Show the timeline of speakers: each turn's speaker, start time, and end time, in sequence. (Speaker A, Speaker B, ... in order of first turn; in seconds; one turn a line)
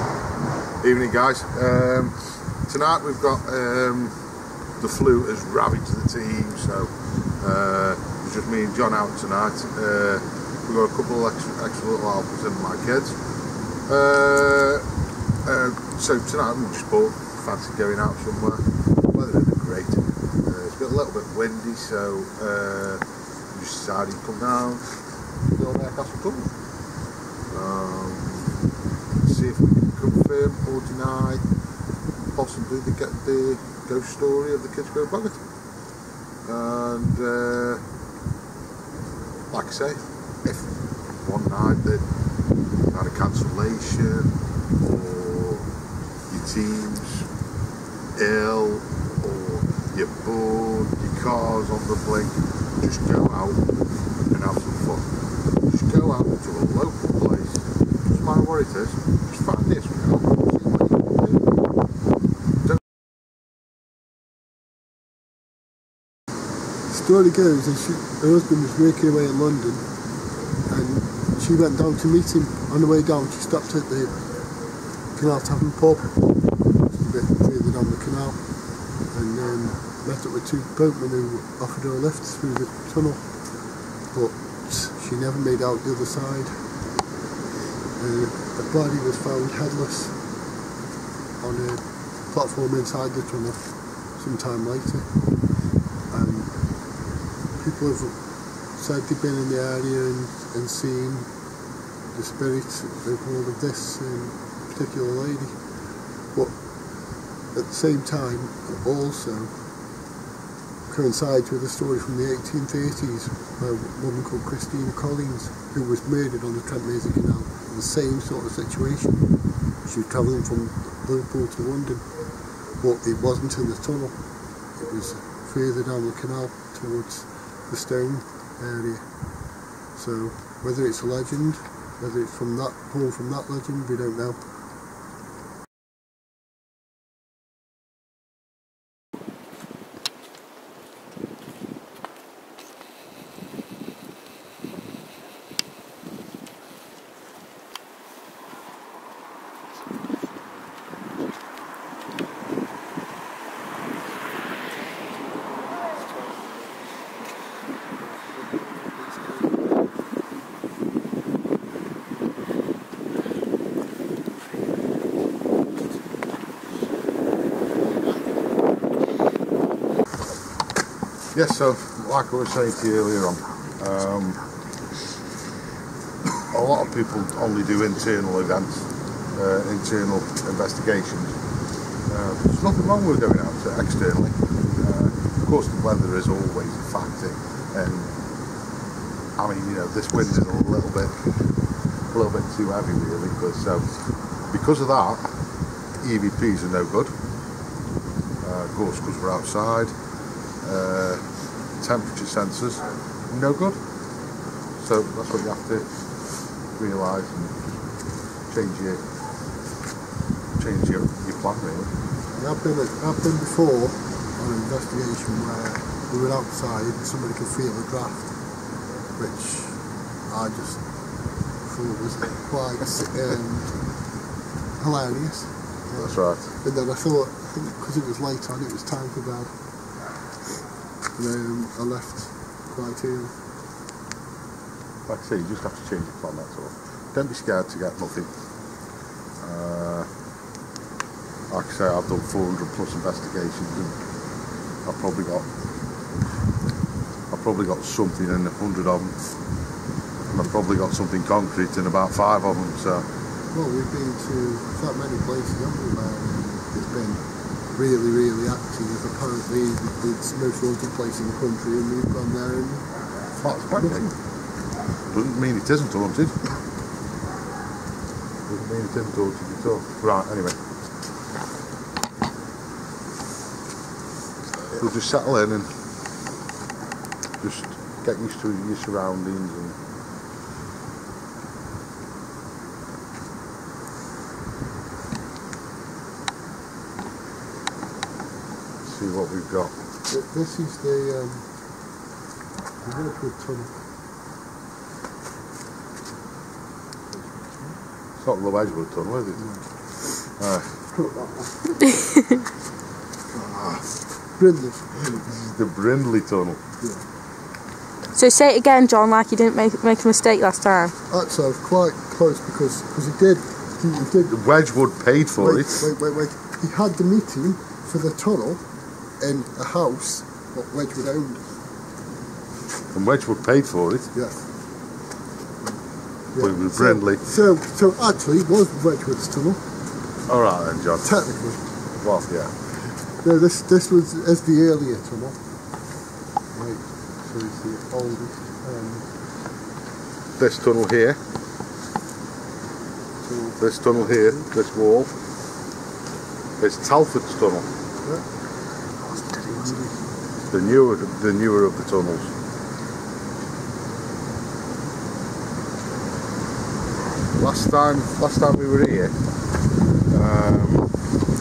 Speaker A: 0.8-4.2
Speaker A: 4.8-14.9
Speaker A: 15.4-26.6
Speaker A: 27.5-28.6
Speaker A: 29.2-31.5
Speaker A: 32.3-35.5
Speaker A: 36.4-37.8
Speaker A: 39.5-42.1
Speaker A: 42.9-45.7
Speaker A: 46.3-47.3
Speaker A: 48.1-53.7
Speaker A: 54.2-61.6
Speaker B: 66.9-86.8
Speaker B: 88.0-90.4
Speaker B: 91.4-95.5
Speaker B: 96.1-110.0
Speaker B: 110.9-134.5
Speaker A: 171.3-174.5
Speaker A: 176.4-188.2
Speaker A: 189.4-191.6
Speaker A: 192.1-195.4
Speaker A: 196.0-197.1
Speaker A: 198.4-199.9
Speaker A: 200.5-203.8
Speaker A: 204.8-207.8
Speaker A: 208.4-209.1
Speaker A: 210.6-211.9
Speaker B: 212.3-224.1
Speaker B: 224.8-229.6
Speaker A: 225.9-226.5
Speaker B: 231.1-233.3
Speaker A: 235.1-238.3
Speaker A: 239.4-240.1
Speaker A: 241.5-244.0
Speaker A: 244.8-245.5
Speaker A: 247.3-249.3
Speaker A: 250.3-253.0
Speaker B: 253.5-262.9
Speaker A: 263.3-264.1
Speaker B: 263.7-264.1
Speaker A: 265.0-266.4
Speaker A: 268.4-270.6
Speaker A: 274.6-275.8
Speaker A: 277.4-279.8
Speaker A: 288.8-289.8
Speaker B: 290.1-291.5
Speaker B: 292.8-293.8
Speaker B: 297.1-297.8
Speaker A: 298.2-300.8
Speaker B: 299.4-299.6
Speaker B: 300.9-302.0
Speaker C: 302.0-302.4
Speaker B: 303.3-305.3
Speaker A: 305.1-306.6
Speaker C: 308.1-310.9
Speaker B: 311.1-314.4
Speaker A: 314.2-315.9
Speaker B: 315.4-321.6
Speaker A: 322.9-324.1
Speaker B: 324.1-324.5
Speaker B: 326.3-329.6
Speaker A: 326.4-327.3
Speaker A: 330.3-331.2
Speaker B: 331.0-331.6
Speaker A: 332.0-332.6
Speaker B: 333.1-335.4
Speaker B: 336.5-339.1
Speaker A: 340.4-341.2
Speaker B: 343.2-344.4
Speaker A: 343.6-345.1
Speaker A: 346.6-347.7
Speaker B: 349.1-350.1
Speaker A: 350.5-352.3
Speaker A: 357.3-359.2
Speaker A: 360.1-360.9